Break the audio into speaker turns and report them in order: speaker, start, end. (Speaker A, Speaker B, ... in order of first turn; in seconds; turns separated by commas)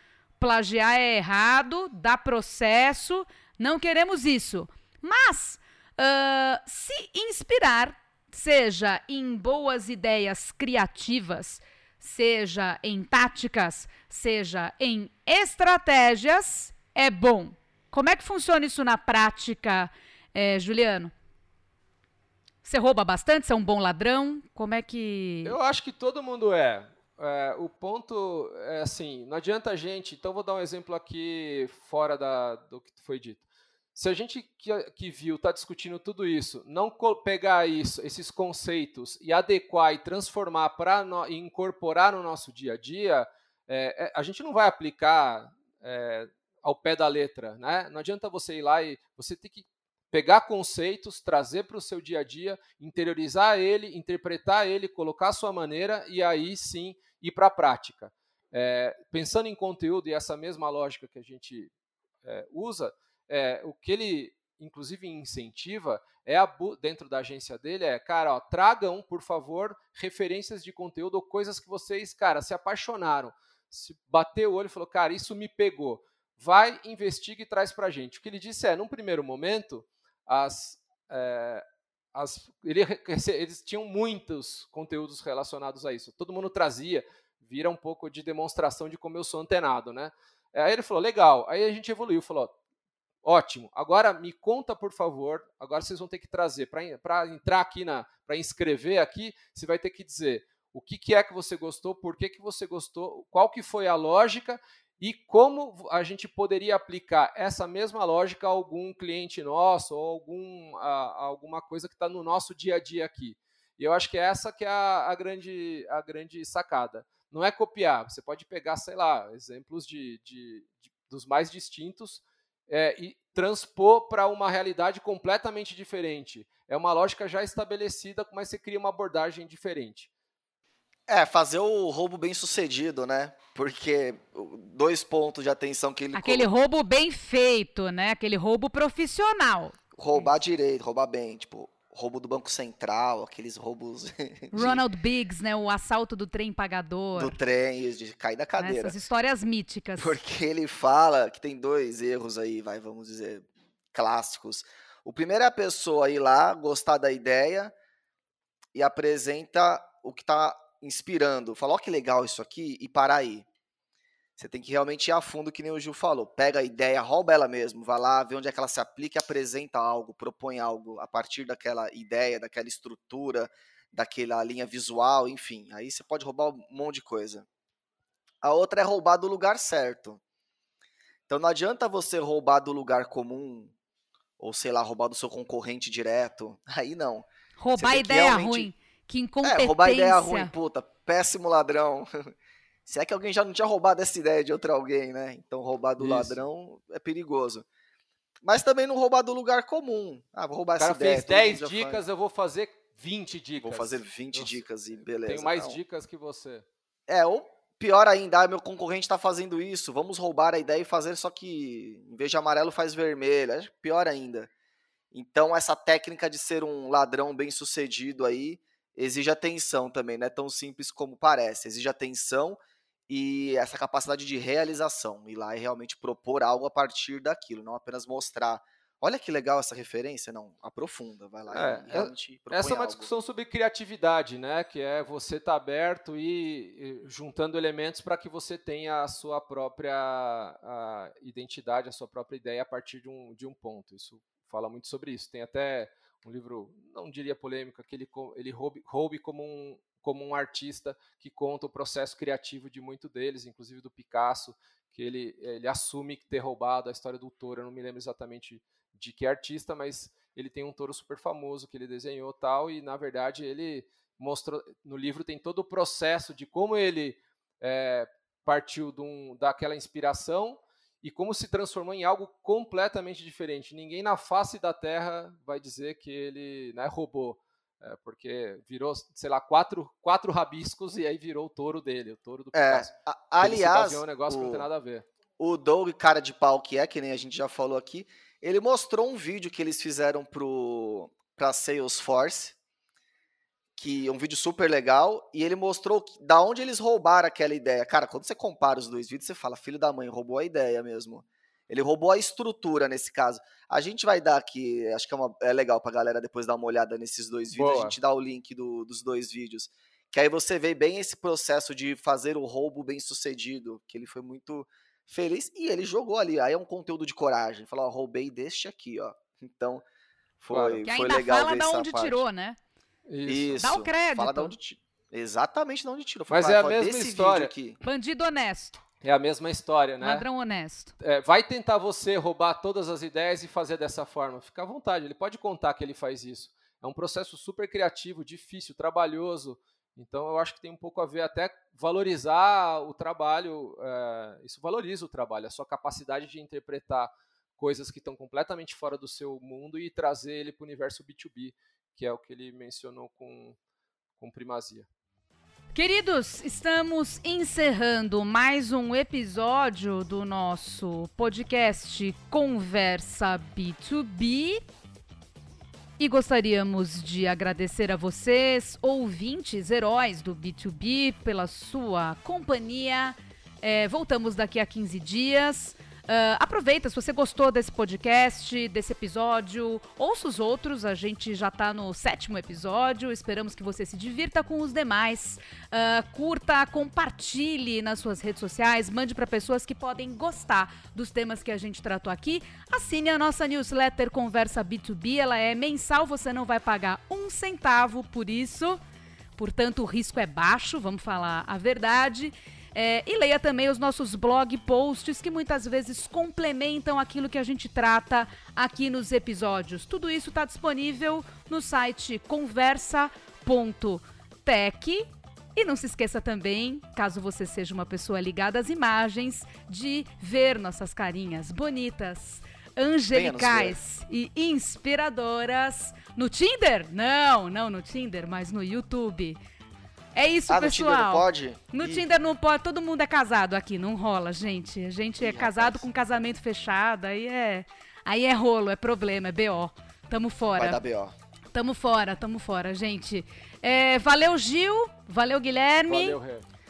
Speaker A: 0.4-21.1, Speaker A: 22.6-25.6, Speaker B: 25.4-61.7, Speaker B: 62.2-92.5, Speaker B: 93.2-130.1, Speaker C: 131.1-136.5, Speaker A: 136.1-140.3, Speaker C: 139.9-144.8, Speaker A: 144.5-147.4, Speaker C: 147.2-148.9, Speaker A: 148.6-150.2, Speaker C: 150.0-157.7, Speaker C: 158.7-163.5, Speaker C: 164.4-177.4, Speaker C: 178.4-180.2, Speaker C: 181.3-183.7, Speaker C: 184.4-188.7, Speaker A: 187.6-190.5, Speaker C: 189.4-192.3, Speaker C: 192.8-197.7, Speaker B: 196.0-196.4, Speaker C: 198.4-202.0, Speaker B: 200.8-204.6, Speaker C: 203.6-205.8, Speaker B: 205.2-206.7, Speaker C: 207.1-214.5, Speaker C: 215.1-233.1, Speaker B: 231.5-285.1, Speaker C: 282.5-284.7, Speaker C: 285.4-292.6, Speaker C: 293.8-319.8, Speaker B: 307.5-308.0, Speaker C: 320.4-322.2, Speaker B: 320.5-320.8, Speaker A: 320.8-322.6, Speaker B: 323.1-323.6, Speaker C: 323.2-327.8, Speaker A: 323.6-324.6, Speaker B: 326.3-327.5, Speaker A: 327.8-328.8, Speaker B: 329.0-330.3, Speaker A: 330.0-330.9, Speaker B: 331.0-353.6, Speaker B: 354.2-354.9, Speaker A: 355.7-364.6, Speaker A: 366.0-398.8, Speaker A: 399.4-429.4, Speaker C: 423.1-423.8, Speaker A: 430.1-440.8, Speaker C: 430.5-432.1, Speaker C: 435.2-435.9, Speaker C: 440.6-441.1, Speaker A: 441.5-446.2, Speaker B: 445.9-446.4